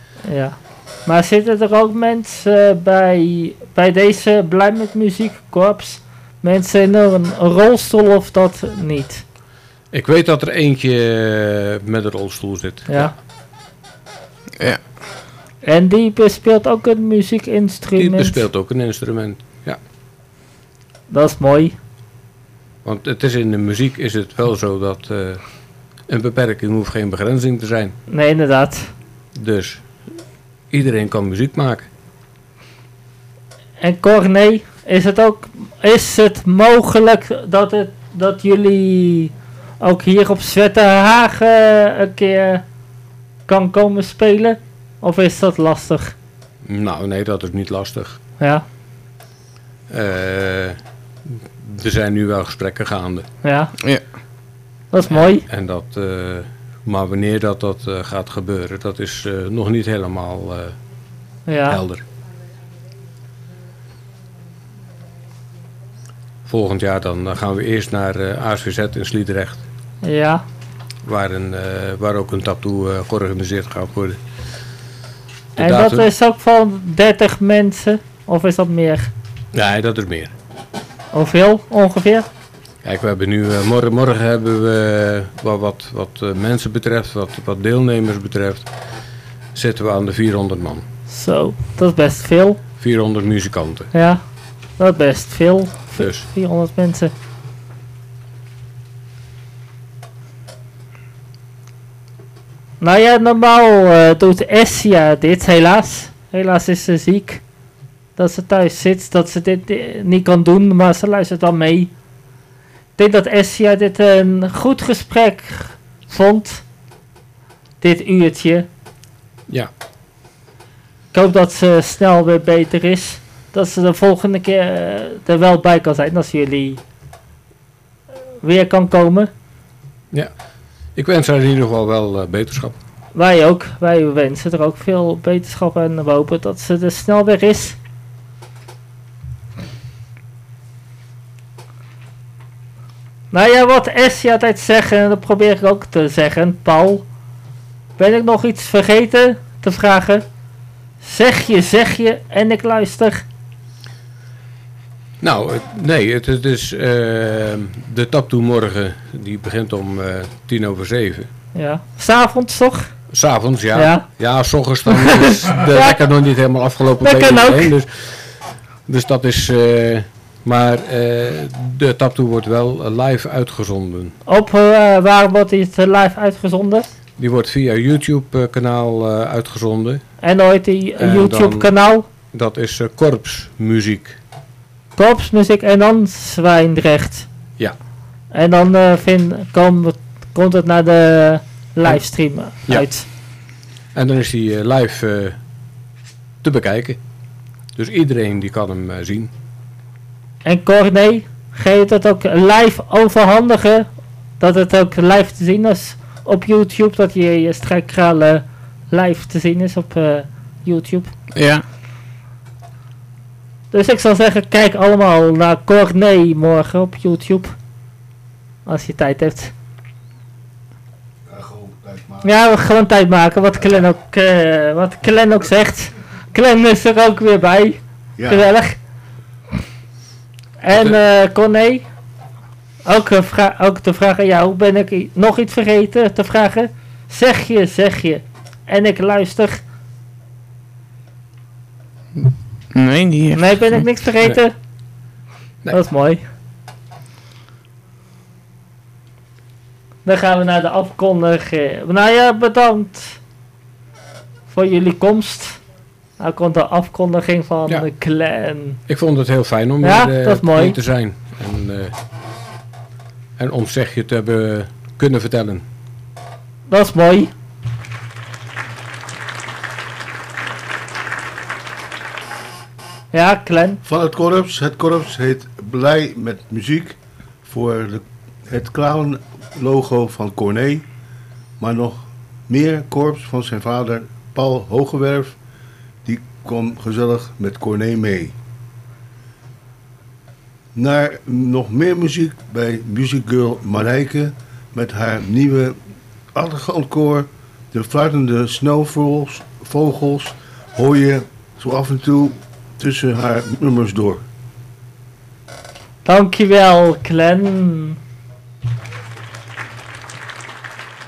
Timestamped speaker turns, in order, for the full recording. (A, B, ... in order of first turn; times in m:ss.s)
0:00.3-0:09.2 A
0:09.9-0:13.1 B
0:12.9-0:13.1 A
0:15.6-0:18.4 A
0:18.0-0:19.8 B
0:21.1-0:21.8 A
0:22.8-0:25.4 B
0:26.1-0:28.0 B
0:28.1-0:28.9 A
0:29.4-0:29.8 B
0:30.7-0:31.9 B
0:33.8-0:42.6 A
0:43.5-0:46.2 A
0:46.6-0:48.2 B
0:48.4-0:48.6 A
0:49.9-0:50.8 B
0:51.3-0:53.3 B
0:53.4-0:53.7 A
0:54.9-0:55.4 A
0:55.1-1:00.8 B
1:01.5-1:01.8 A
1:01.7-1:02.0 B
1:06.5-1:09.6 B
1:10.0-1:10.4 A
1:11.0-1:14.2 B
1:15.6-1:16.1 B
1:15.6-1:19.1 A
1:19.5-1:20.3 B
1:21.1-1:22.3 A
1:22.8-1:28.7 B
1:29.5-1:30.9 B
1:31.1-1:32.6 A
1:32.8-1:33.9 B
1:33.9-1:34.2 A
1:34.8-1:37.1 A
1:36.0-1:36.3 B
1:42.8-1:47.4 A
1:48.2-1:51.9 A
1:53.0-1:56.6 A
1:57.8-1:58.7 A
2:01.1-2:06.8 A
2:08.4-2:09.3 A
2:11.0-2:12.8 B
2:13.2-2:17.8 A
2:23.3-2:27.0 A
2:28.0-2:30.2 A
2:31.0-2:33.2 A
2:35.2-2:41.3 B
2:41.6-2:42.9 A
2:43.1-2:48.4 B
2:43.8-2:44.0 A
2:44.9-2:46.0 A
2:47.0-2:47.7 A
2:48.9-2:54.2 B
2:54.3-2:56.9 A
2:57.2-3:00.0 B
3:00.2-3:02.1 A
3:01.0-3:01.7 B
3:02.3-3:04.2 B
3:05.0-3:07.3 A
3:08.3-3:13.1 A
3:14.0-3:15.4 B
3:16.4-3:17.0 B
3:17.8-3:19.3 B
3:20.4-3:23.9 A
3:24.4-3:31.1 A
3:31.4-3:31.6 C
3:33.7-3:37.5 A
3:38.7-3:39.5 A
3:41.3-3:42.3 D
3:42.2-3:48.8 A
3:48.2-3:48.5 D
3:50.6-3:51.9 A
3:52.8-3:59.6 A
4:02.2-4:03.8 C
4:03.4-4:04.5 A
4:05.7-4:06.2 A
4:10.0-4:13.2 A
4:14.5-4:15.6 A
4:16.2-4:18.8 A
4:18.9-4:22.0 B
4:19.8-4:20.8 A
4:23.4-4:25.6 B
4:26.7-4:27.3 A
4:33.1-4:33.8 A
4:33.8-4:40.9 D
4:41.6-4:45.4 D
4:46.0-4:48.4 D
4:50.8-4:55.8 D
4:56.3-5:04.2 D
5:06.0-5:08.0 A